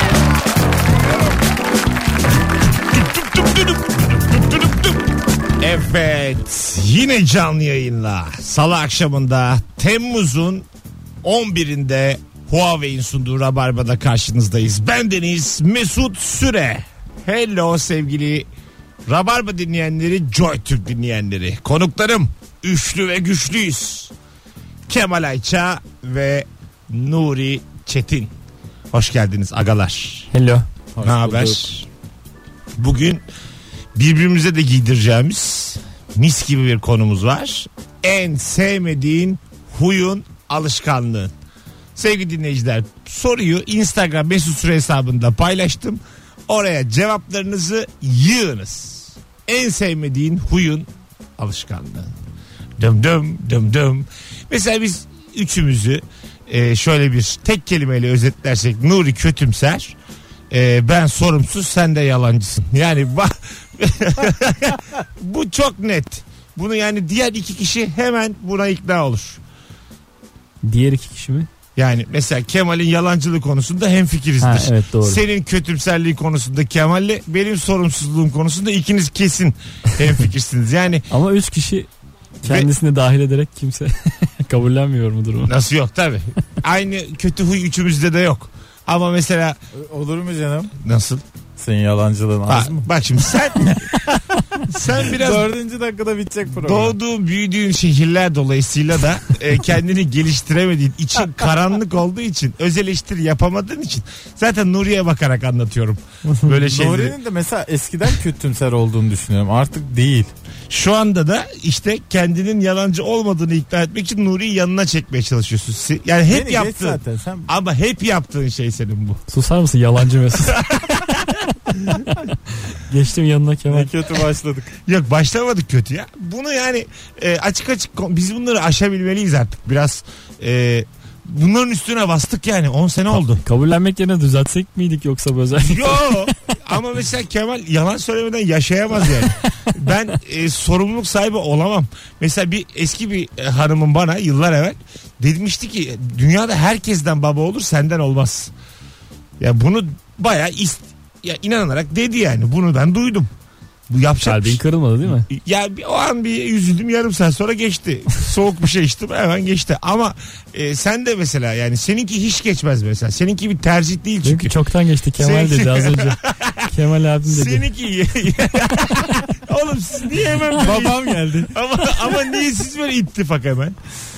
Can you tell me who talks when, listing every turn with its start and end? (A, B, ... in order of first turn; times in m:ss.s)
0:02.9-0:10.7 A
0:11.2-0:18.5 A
0:19.1-0:24.1 A
0:24.9-0:28.3 A
0:28.9-0:30.3 A
0:30.3-0:30.6 B
0:31.0-0:31.6 C
0:31.0-0:31.9 A
0:32.8-0:33.2 A
0:34.0-0:41.3 A
0:42.0-0:52.1 A
0:52.8-1:00.0 A
1:00.5-1:09.4 A
1:10.6-1:11.5 B
1:11.8-1:21.1 A
1:14.4-1:15.2 B
1:21.1-1:21.9 B
1:22.4-1:25.5 B
1:25.5-1:29.6 A
1:29.7-1:30.7 C
1:30.8-1:31.2 A
1:31.6-1:32.9 C
1:32.5-1:33.9 A
1:33.6-1:37.0 C
1:34.7-1:35.5 A
1:36.6-1:47.2 A
1:46.5-1:50.3 C
1:50.7-1:59.2 A
1:56.3-1:57.5 C
1:59.3-2:03.9 B
2:00.4-2:01.2 A
2:03.7-2:04.7 C
2:04.8-2:13.4 A
2:13.3-2:16.6 B
2:15.6-2:28.5 A
2:19.3-2:19.7 B
2:29.4-2:33.3 A
2:33.9-2:44.6 A
2:34.2-2:35.3 B
2:44.2-2:47.7 B
2:45.2-2:46.7 A
2:47.2-2:53.8 A
2:48.8-2:49.1 B
2:50.6-2:51.5 C